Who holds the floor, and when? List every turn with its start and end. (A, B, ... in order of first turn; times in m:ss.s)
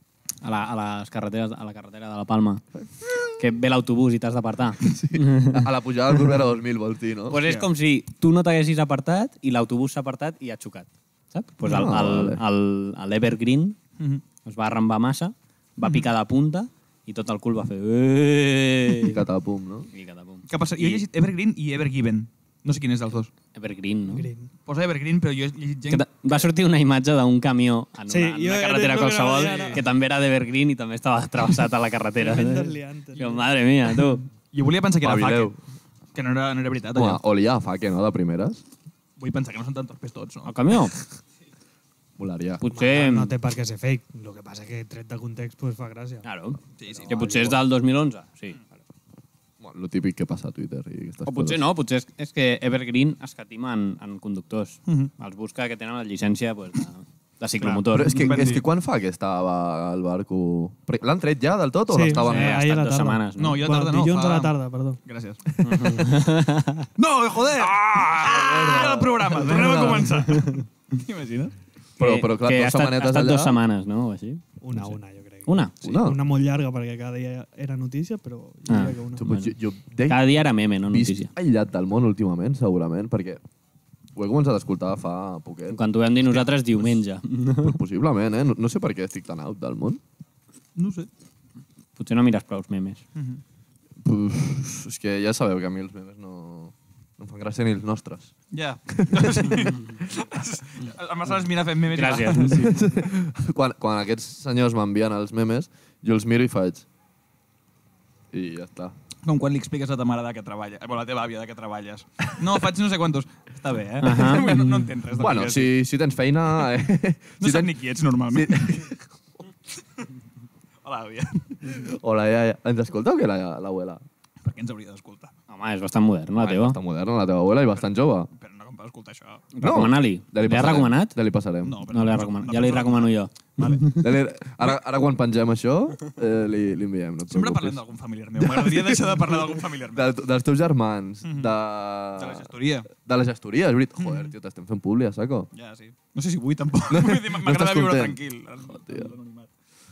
0:00.4-0:02.6 A
0:02.9-0:03.2 B
0:03.4-0:05.7 A
0:04.8-0:07.4 B
0:07.3-0:13.8 A
0:11.6-0:12.4 B
0:14.4-0:19.2 A
0:19.0-0:19.9 B
0:19.9-0:21.0 A
0:20.5-0:23.3 C
0:23.6-0:24.3 A
0:24.1-0:24.5 D
0:24.7-0:26.5 C
0:25.9-0:34.3 A
0:28.1-0:29.8 D
0:29.4-0:29.8 C
0:32.2-0:33.5 D
0:34.5-0:35.6 C
0:35.0-0:35.6 B
0:36.2-0:37.2 C
0:37.0-0:38.6 B
0:39.2-0:40.5 C
0:40.5-0:41.0 A
0:42.2-0:42.6 B
0:42.6-0:43.4 A
0:42.7-0:46.3 D
0:46.2-0:48.6 A
0:46.8-0:47.5 C
0:46.9-0:47.6 B
0:49.6-0:51.6 B
0:51.2-0:58.5 A
0:57.6-0:58.6 C
0:57.9-1:02.6 B
1:01.9-1:05.0 D
1:02.1-1:03.6 A
1:03.4-1:05.4 C
1:05.6-1:06.9 A
1:05.7-1:06.0 B
1:07.0-1:11.5 C
1:07.5-1:10.2 B
1:10.2-1:10.6 A
1:12.0-1:13.6 B
1:12.0-1:15.7 A
1:14.6-1:19.3 D
1:15.8-1:16.2 B
1:18.7-1:19.5 A
1:19.2-1:20.4 B
1:20.1-1:21.3 A
1:20.9-1:23.4 B
1:24.2-1:25.8 B
1:25.7-1:27.8 A
1:27.6-1:30.0 B
1:30.8-1:31.1 C
1:32.0-1:33.0 A
1:33.2-1:33.4 C
1:34.0-1:38.3 B
1:38.5-1:42.7 C
1:38.9-1:39.8 B
1:41.9-1:42.8 A
1:42.4-1:46.9 B
1:48.3-1:48.9 B
1:49.2-1:55.7 C
1:54.0-1:54.8 A
1:55.1-1:57.8 B
1:57.4-1:58.8 C
1:58.3-1:59.0 B
2:00.8-2:01.5 C
2:01.6-2:04.0 B
2:04.4-2:05.3 C
2:05.5-2:06.8 A
2:06.4-2:08.3 B
2:08.3-2:09.4 C
2:09.5-2:11.2 A
2:09.6-2:11.8 B
2:11.6-2:13.9 C
2:11.9-2:14.1 A
2:14.0-2:17.8 B
2:17.3-2:20.1 C
2:18.4-2:25.5 B
2:21.2-2:21.6 C
2:22.2-2:22.9 C
2:24.0-2:24.3 C
2:25.5-2:29.5 C
2:26.9-2:28.2 B
2:28.7-2:29.1 B